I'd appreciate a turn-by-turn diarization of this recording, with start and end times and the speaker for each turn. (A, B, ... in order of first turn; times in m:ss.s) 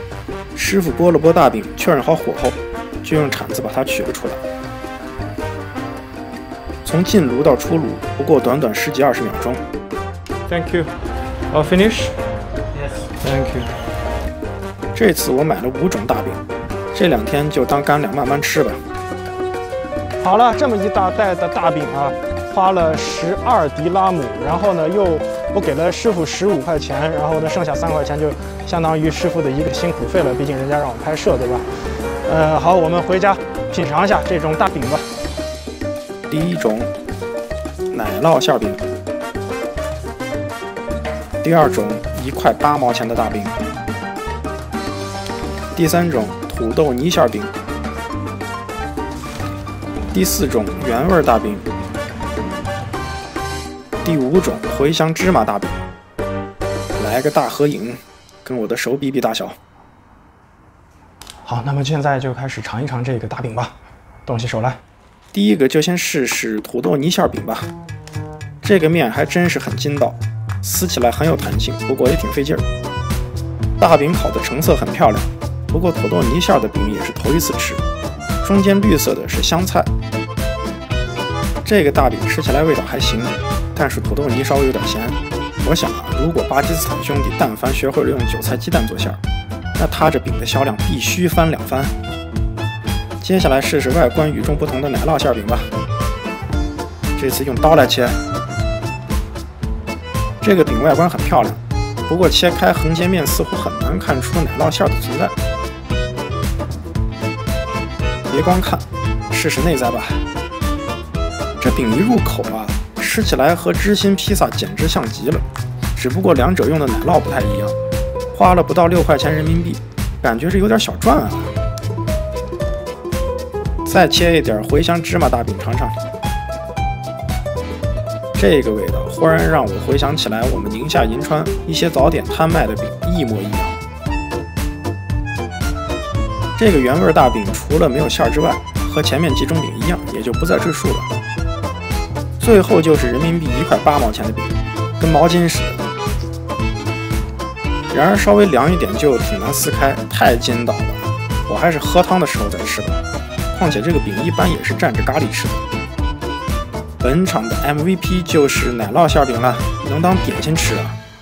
0:00.6-0:04.4 A
0:06.8-0:09.6 A
0:10.5-0:10.9 B
0:11.5-0:12.2 B
0:12.9-0:13.7 B
0:15.0-0:16.4 A
0:16.9-0:18.8 A
0:20.2-0:35.1 B
0:36.3-0:36.9 A
0:37.9-0:38.8 A
0:41.4-0:43.6 A
0:45.7-0:47.5 A
0:50.1-0:51.7 A
0:54.0-0:55.8 A
0:57.0-0:59.6 A
1:01.4-1:03.8 B
1:04.3-1:04.8 B
1:05.3-1:07.7 A
1:08.6-1:12.6 A
1:13.8-1:17.8 A
1:18.4-1:19.9 A
1:21.6-1:29.2 A
1:29.8-1:32.0 A
1:33.2-1:35.7 A
1:37.2-1:38.2 A
1:40.4-1:45.4 A
1:48.3-1:50.3 A
1:51.6-1:57.8 A
1:58.3-2:01.6 A
2:03.8-2:06.0 A
2:08.4-2:13.8 A
2:16.6-2:21.1 A
2:22.4-2:25.8 A
2:27.9-2:35.6 A
2:37.0-2:41.0 A